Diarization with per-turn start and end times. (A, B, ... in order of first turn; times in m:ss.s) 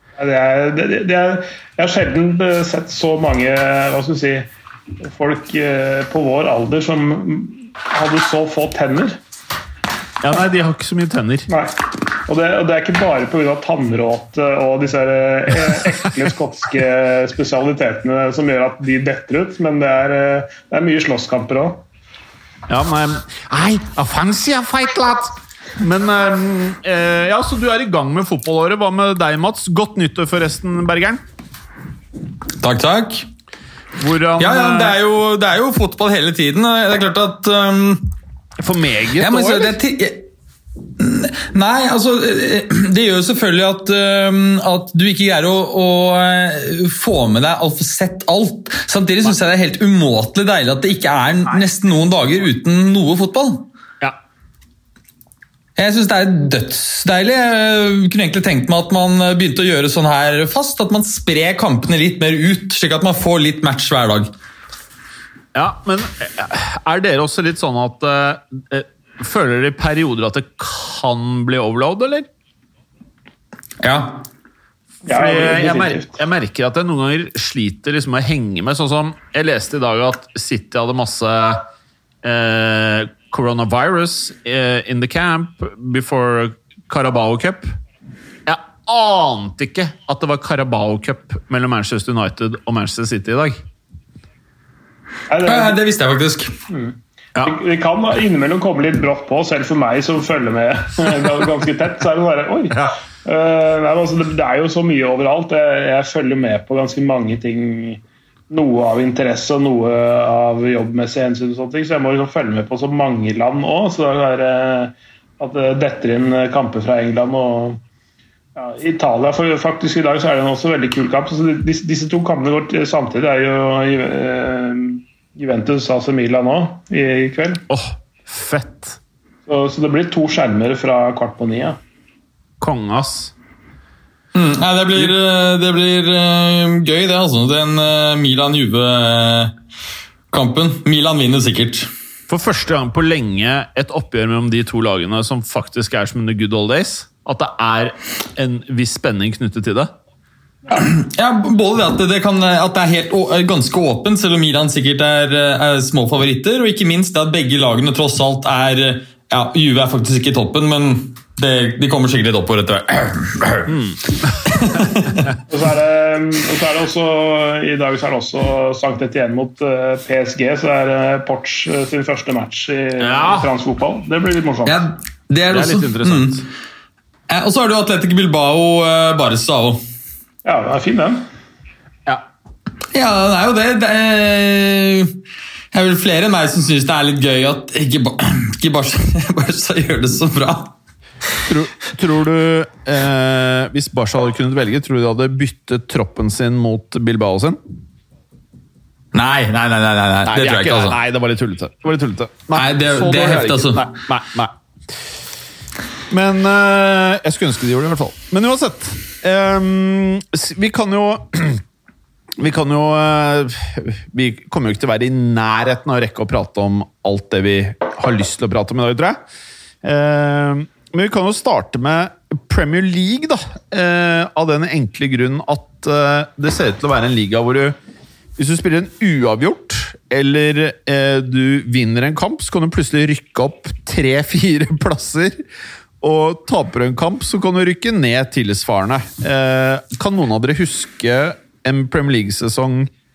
0:00.2-0:04.5 A
0:05.0-0:09.2 A
0:10.2-0:11.5 B
0:12.3-0:21.8 A
0:22.7-0:31.2 B
0:32.6-0:33.3 C
0:34.0-0:35.0 B
0:34.4-0:38.1 C
0:38.6-0:39.7 B
0:39.2-0:40.3 C
0:41.0-0:53.7 C
0:55.8-1:04.3 C
1:05.6-1:12.3 B
1:13.8-1:14.2 C
1:15.1-1:16.2 A
1:15.1-1:21.6 B
1:22.2-1:27.8 B
1:28.5-1:33.6 B
1:35.3-1:35.8 A
1:35.4-1:36.6 C
1:36.7-1:57.8 A
1:58.6-2:07.6 A
2:07.7-2:09.0 B
2:09.5-2:11.8 A
2:12.6-2:13.3 B
2:14.3-2:19.5 C
2:20.3-2:21.9 C
2:22.3-2:29.9 B
2:30.7-2:43.7 C
2:43.7-2:44.5 B
2:44.5-2:45.3 C
2:45.5-2:54.8 A
2:53.0-2:53.5 B
2:54.7-2:56.4 C
2:55.5-2:56.5 B
2:57.3-2:59.8 C
3:00.4-3:01.2 A
3:02.9-3:05.2 C
3:05.7-3:10.7 C
3:11.4-3:17.6 B
3:19.1-3:21.0 C
3:20.3-3:24.5 B
3:22.5-3:23.8 C
3:26.1-3:31.6 B
3:32.4-3:39.2 B
3:39.8-3:47.8 B
3:48.4-3:55.4 B
3:56.0-4:02.9 B